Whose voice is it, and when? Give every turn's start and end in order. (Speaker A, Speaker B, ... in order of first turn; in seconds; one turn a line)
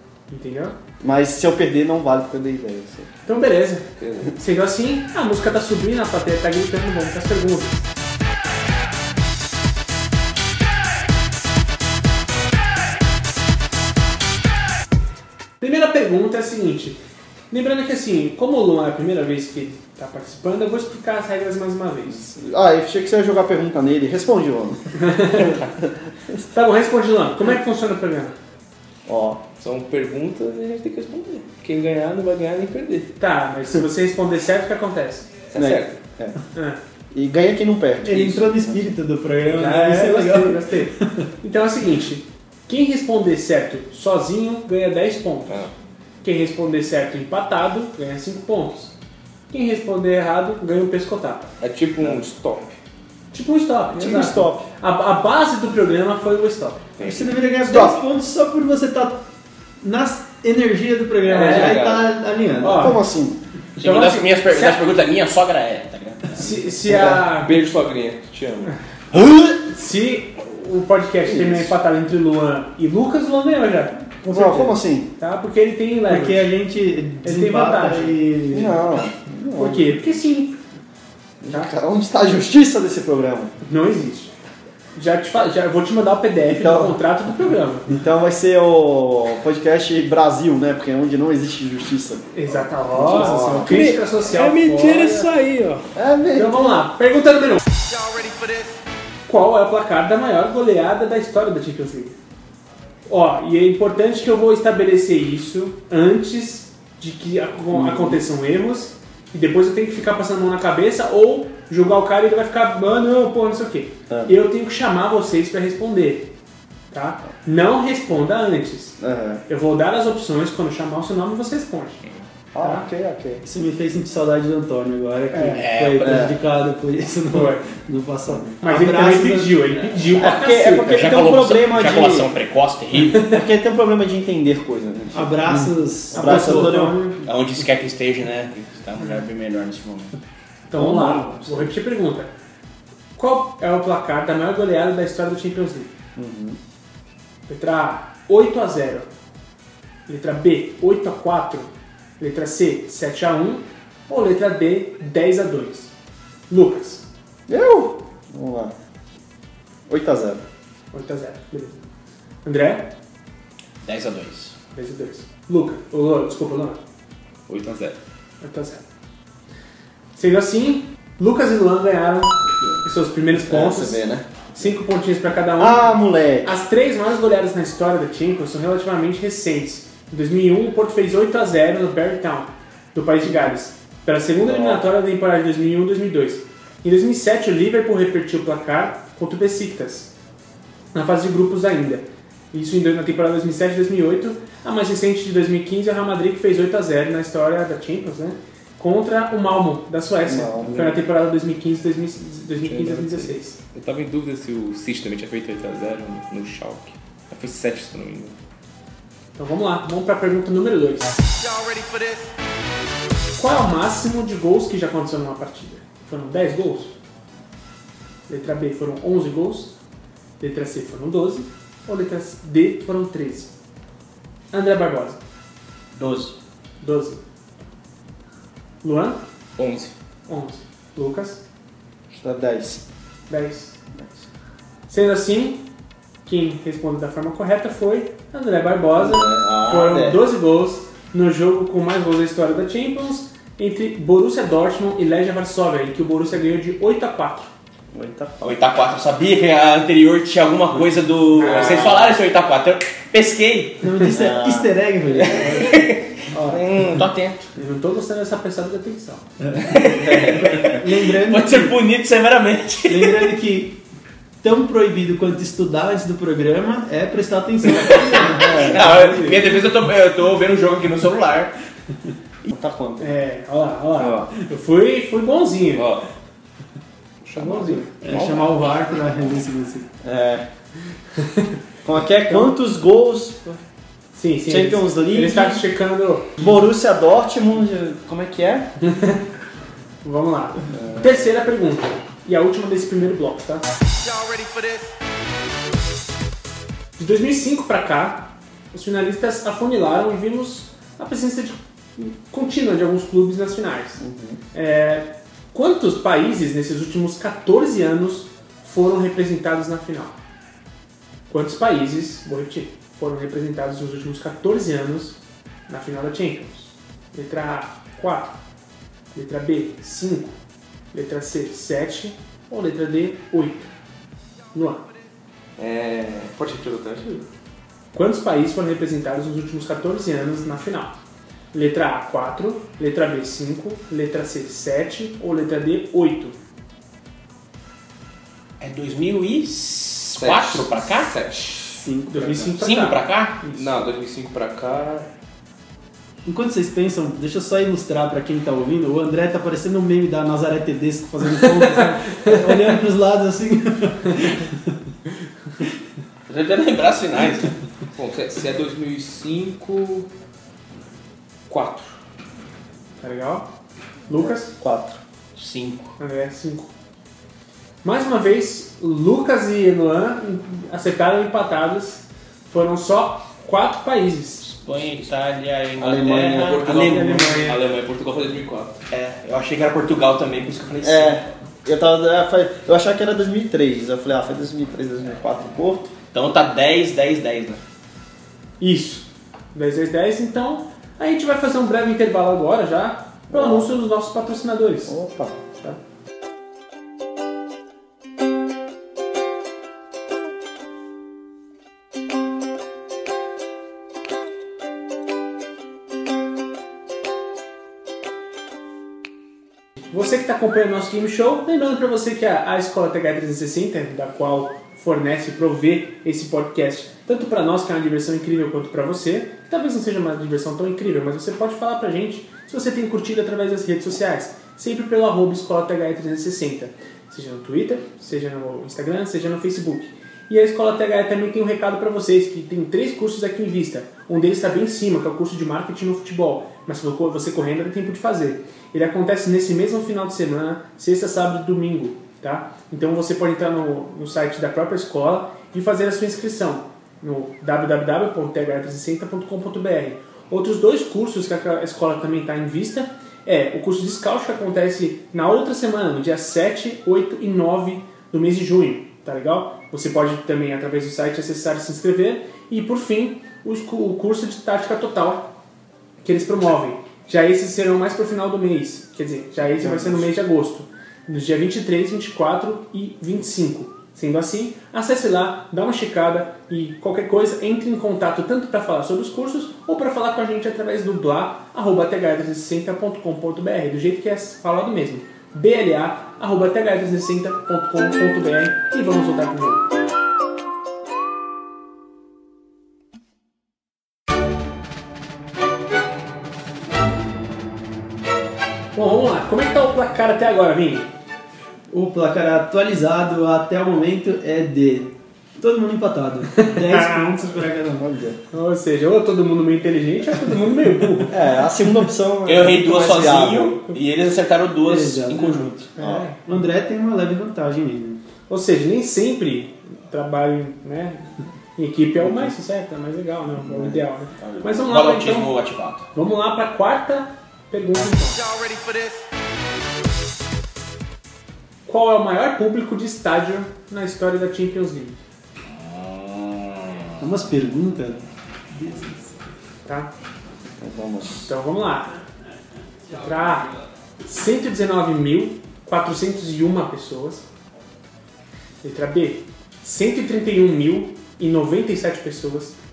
Speaker A: 0.3-0.8
Speaker B: 1.0-3.1
Speaker A: 3.2-7.8
Speaker C: 4.0-4.3
Speaker A: 15.6-22.3
Speaker B: 22.1-25.7
Speaker A: 24.9-25.6
Speaker A: 26.5-28.4
Speaker B: 29.1-29.4
Speaker C: 29.6-33.1
Speaker A: 33.2-35.3
Speaker C: 35.5-36.0
Speaker B: 35.5-36.4
Speaker A: 36.5-36.8
Speaker B: 37.1-38.9
Speaker D: 38.0-41.2
Speaker A: 39.5-45.7
Speaker A: 46.2-48.9
Speaker A: 49.5-51.5
Speaker C: 51.6-52.8
Speaker A: 53.3-56.9
Speaker B: 53.9-54.7
Speaker C: 57.0-57.4
Speaker D: 57.0-59.2
Speaker B: 57.6-58.0
Speaker D: 59.8-63.0
Speaker C: 61.2-62.1
Speaker A: 61.2-61.8
Speaker A: 62.6-63.0
Speaker B: 62.6-63.4
Speaker E: 63.8-66.5
Speaker A: 63.8-64.8
Speaker A: 66.3-67.5
Speaker B: 66.8-67.3
Speaker C: 67.4-68.7
Speaker B: 69.1-69.5
Speaker A: 69.7-76.5
Speaker B: 71.2-71.7
Speaker B: 74.3-75.1
Speaker D: 76.1-78.8
Speaker A: 77.2-78.2
Speaker B: 78.5-80.1
Speaker A: 79.5-80.6
Speaker B: 81.4-83.5
Speaker A: 83.6-84.3
Speaker A: 84.9-87.9
Speaker B: 86.5-87.0
Speaker B: 87.9-92.2
Speaker A: 92.3-95.3
Speaker B: 92.9-93.8
Speaker C: 93.6-95.9
Speaker B: 95.9-96.8
Speaker A: 96.3-97.7
Speaker F: 98.0-98.7
Speaker A: 99.3-102.2
Speaker A: 103.1-116.3
Speaker B: 107.7-108.2
Speaker A: 116.9-122.0
Speaker B: 119.0-119.4
Speaker B: 122.5-123.4
Speaker A: 122.6-122.9
Speaker D: 123.4-129.7
Speaker A: 125.3-125.7
Speaker E: 125.5-126.3
Speaker B: 126.0-126.3
Speaker A: 127.3-127.7
Speaker A: 128.6-131.0
Speaker B: 130.1-132.4
Speaker E: 130.8-133.3
Speaker A: 133.1-133.4
Speaker B: 133.2-137.0
Speaker D: 135.1-136.9
Speaker A: 136.1-137.2
Speaker E: 137.2-140.1
Speaker A: 140.7-142.3
Speaker B: 140.7-141.7
Speaker A: 143.2-145.9
Speaker B: 146.2-146.6
Speaker A: 147.5-149.1
Speaker A: 150.1-155.9
Speaker A: 156.5-157.0
Speaker B: 157.5-158.7
Speaker B: 159.9-160.4
Speaker A: 160.9-161.8
Speaker A: 162.4-162.9
Speaker E: 163.8-164.6
Speaker A: 164.7-166.8
Speaker C: 167.5-168.0
Speaker A: 168.4-168.8
Speaker A: 170.1-174.0
Speaker B: 173.3-174.2
Speaker A: 174.5-190.1
Speaker B: 175.6-176.6
Speaker B: 184.4-184.9
Speaker A: 190.9-203.6
Speaker B: 200.2-200.9
Speaker C: 202.6-208.3
Speaker A: 209.3-211.4
Speaker A: 213.4-216.9
Speaker A: 218.3-219.8
Speaker A: 220.4-223.5
Speaker A: 224.5-225.2
Speaker B: 226.0-226.3
Speaker A: 226.8-227.2
Speaker A: 228.8-229.2
Speaker C: 229.6-229.9
Speaker A: 230.3-231.4
Speaker B: 232.1-232.8
Speaker A: 233.3-233.8
Speaker B: 233.9-234.2
Speaker A: 234.9-235.6
Speaker A: 236.2-247.5
Speaker B: 239.0-240.2
Speaker B: 247.9-248.4
Speaker E: 248.4-253.9
Speaker A: 251.4-251.9
Speaker D: 253.8-255.8
Speaker B: 254.1-254.7
Speaker E: 255.2-257.4
Speaker A: 257.6-259.2
Speaker D: 259.4-261.8
Speaker E: 259.6-263.4
Speaker D: 262.9-263.8
Speaker D: 264.4-269.3
Speaker E: 267.8-271.5
Speaker A: 269.0-269.3
Speaker B: 272.4-273.0
Speaker A: 273.0-275.9
Speaker C: 274.0-274.3
Speaker C: 275.8-276.0
Speaker C: 277.2-278.7
Speaker A: 277.3-277.9
Speaker D: 278.0-279.9
Speaker B: 280.0-280.4
Speaker A: 281.2-281.5
Speaker B: 281.8-283.6
Speaker A: 282.3-282.5
Speaker A: 284.1-286.4
Speaker B: 284.5-285.6
Speaker B: 286.4-288.7
Speaker A: 288.8-289.2
Speaker A: 290.0-293.7
Speaker B: 290.7-291.1
Speaker F: 294.1-294.8
Speaker A: 297.0-310.2
Speaker B: 304.0-304.4
Speaker A: 311.3-318.4
Speaker A: 319.1-320.3
Speaker A: 320.9-323.7
Speaker A: 324.5-324.9
Speaker C: 325.6-327.3
Speaker A: 327.9-331.0
Speaker A: 331.5-336.3
Speaker E: 338.6-341.1
Speaker C: 340.2-341.8
Speaker D: 341.7-342.5
Speaker A: 342.1-343.8
Speaker E: 342.6-343.4
Speaker C: 343.5-345.1
Speaker D: 346.2-354.7
Speaker E: 356.3-357.5
Speaker C: 357.9-360.1
Speaker C: 361.5-361.9
Speaker A: 363.0-363.5
Speaker A: 364.1-364.5
Speaker B: 364.1-365.0
Speaker E: 365.3-365.9
Speaker A: 366.0-366.7
Speaker A: 367.8-374.5
Speaker E: 374.4-377.2
Speaker B: 375.8-376.9
Speaker C: 375.9-378.8
Speaker A: 376.7-377.6
Speaker E: 378.9-381.2
Speaker B: 380.8-385.9
Speaker E: 386.1-387.6
Speaker A: 388.6-394.9
Speaker B: 393.3-393.7
Speaker B: 394.9-395.4
Speaker A: 409.9-465.3
Speaker A: 466.0-489.7
Speaker B: 469.6-470.1
Speaker A: 498.7-500.9
Speaker D: 501.7-507.8
Speaker A: 506.4-507.2
Speaker B: 507.7-508.2
Speaker A: 508.3-511.2
Speaker B: 511.1-513.6
Speaker E: 512.2-515.7
Speaker D: 514.6-515.5
Speaker A: 515.8-516.2
Speaker B: 515.8-516.1
Speaker D: 516.2-518.0
Speaker A: 518.3-525.4
Speaker B: 522.0-522.3
Speaker B: 523.4-523.8
Speaker E: 524.2-525.9
Speaker A: 525.9-528.3
Speaker F: 528.4-528.9
Speaker A: 531.6-535.0
Speaker E: 535.6-536.8
Speaker D: 537.0-539.2
Speaker A: 539.6-539.9
Speaker B: 540.6-541.3
Speaker A: 541.2-542.0
Speaker A: 542.9-543.5
Speaker A: 544.0-547.2
Speaker A: 548.6-552.6